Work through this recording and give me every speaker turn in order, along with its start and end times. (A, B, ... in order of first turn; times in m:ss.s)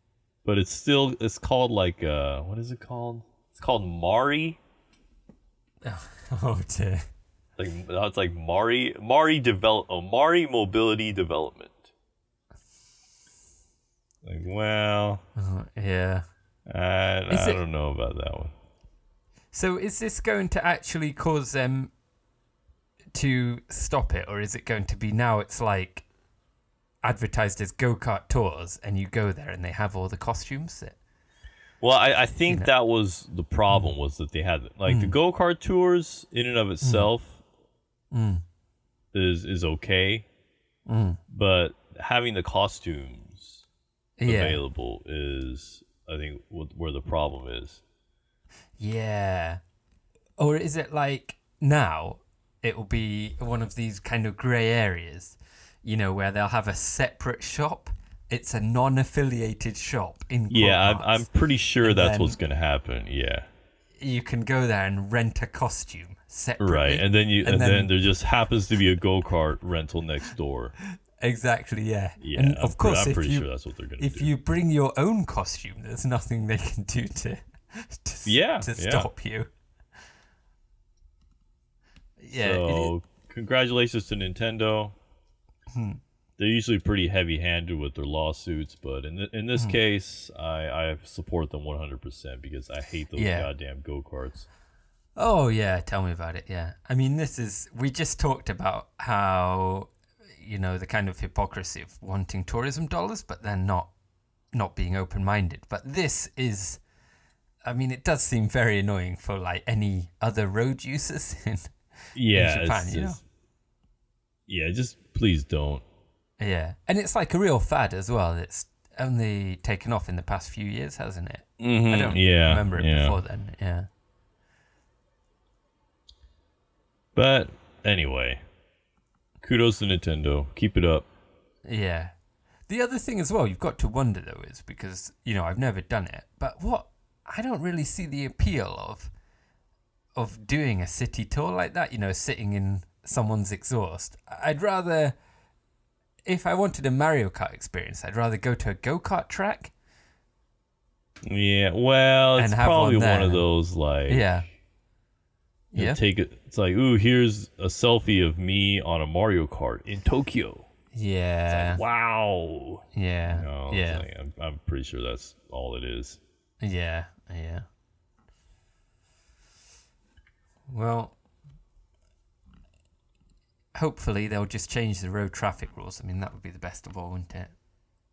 0:00.4-0:04.6 A
0:05.8-0:07.0 B
0:07.6-0:11.9 A
0:14.2-0:15.2 A
0:15.4-0:16.2 B
0:16.7-0:18.5 A
0:17.3-0:17.6 B
0:19.5-0:21.9 B
0:23.1-0:26.0 B
0:27.0-0:31.0 B
0:31.8-0:37.4 A
0:34.8-0:35.1 B
0:36.8-0:37.1 B
0:38.1-0:38.4 B
0:39.1-0:40.2 A
0:40.8-0:41.2 B
0:41.3-0:43.6 A
0:44.2-0:44.6 B
0:44.2-0:47.8 A
0:48.8-0:49.6 B
0:50.4-1:01.3 B
1:00.5-1:03.5 A
1:01.8-1:02.4 B
1:04.0-1:07.9 B
1:06.6-1:10.7 A
1:11.2-1:13.4 B
1:12.2-1:14.3 A
1:14.0-1:19.5 B
1:18.2-1:19.1 A
1:22.2-1:22.9 B
1:22.4-1:24.9 A
1:25.7-1:26.0 B
1:26.4-1:34.5 A
1:33.1-1:33.5 B
1:35.2-1:43.9 B
1:44.5-1:46.8 B
1:47.6-1:51.7 B
1:52.1-1:53.2 A
1:52.3-1:53.2 B
1:54.5-1:55.8 A
1:56.4-2:03.9 B
2:01.6-2:03.2 A
2:07.1-2:08.4 A
2:09.4-2:11.1 A
2:11.6-2:12.1 B
2:12.7-2:19.1 B
2:20.1-2:25.2 B
2:26.2-2:29.7 B
2:31.2-2:34.3 A
2:32.4-2:33.4 B
2:34.1-2:34.5 B
2:35.7-2:36.0 B
2:35.7-2:40.7 A
2:40.9-2:41.8 B
2:41.5-2:46.2 A
2:42.9-2:44.0 B
2:46.6-2:47.6 B
2:50.7-2:51.2 B
2:53.7-2:57.5 B